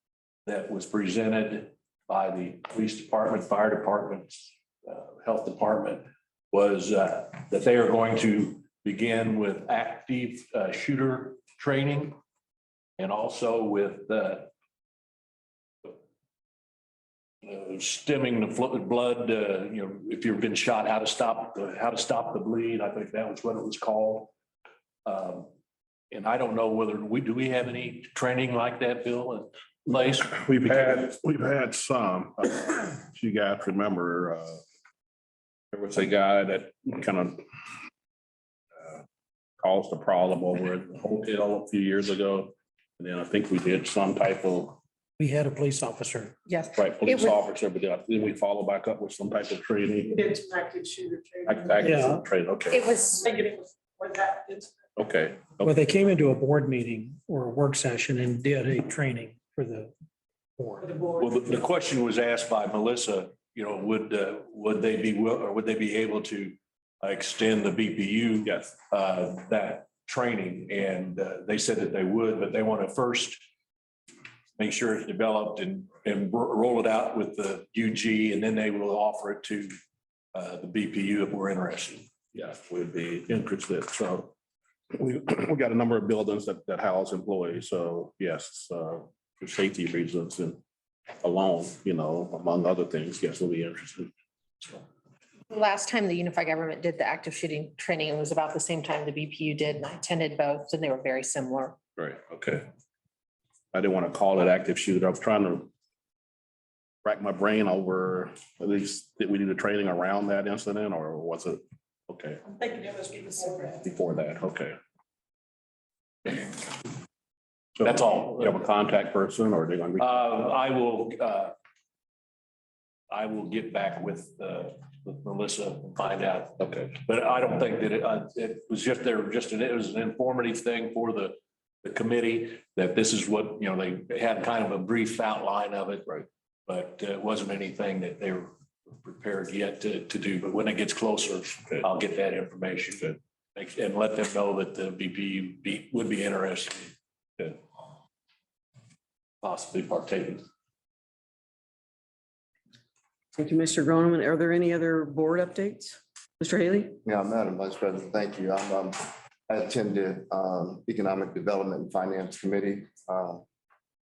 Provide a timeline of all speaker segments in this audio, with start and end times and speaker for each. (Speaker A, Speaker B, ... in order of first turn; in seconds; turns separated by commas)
Speaker A: 0.5-12.2, Speaker A: 13.0-14.5, Speaker A: 17.4-24.3, Speaker A: 25.0-25.5, Speaker A: 26.1-31.0, Speaker B: 30.4-34.6, Speaker B: 35.7-37.4, Speaker B: 39.6-44.8, Speaker C: 45.2-46.4, Speaker D: 46.5-47.3, Speaker B: 46.8-50.2, Speaker E: 50.2-51.4, Speaker B: 51.5-52.9, Speaker C: 51.8-52.2, Speaker D: 52.7-53.4, Speaker E: 53.4-54.7, Speaker B: 55.0-55.8, Speaker C: 55.6-59.9, Speaker C: 60.6-61.0, Speaker A: 61.2-73.4, Speaker B: 68.4-68.7, Speaker A: 74.6-79.7, Speaker A: 80.3-82.1, Speaker B: 82.3-84.3, Speaker B: 84.9-90.6, Speaker B: 91.2-94.1, Speaker D: 95.5-101.8, Speaker B: 102.0-102.7, Speaker B: 103.7-105.7, Speaker B: 107.0-112.4, Speaker E: 112.6-113.7, Speaker B: 113.8-114.8, Speaker A: 116.2-116.7, Speaker A: 117.8-118.6, Speaker B: 117.8-120.2, Speaker A: 120.0-121.5, Speaker A: 123.1-147.6, Speaker A: 149.4-150.4, Speaker F: 153.3-157.0, Speaker G: 157.0-163.4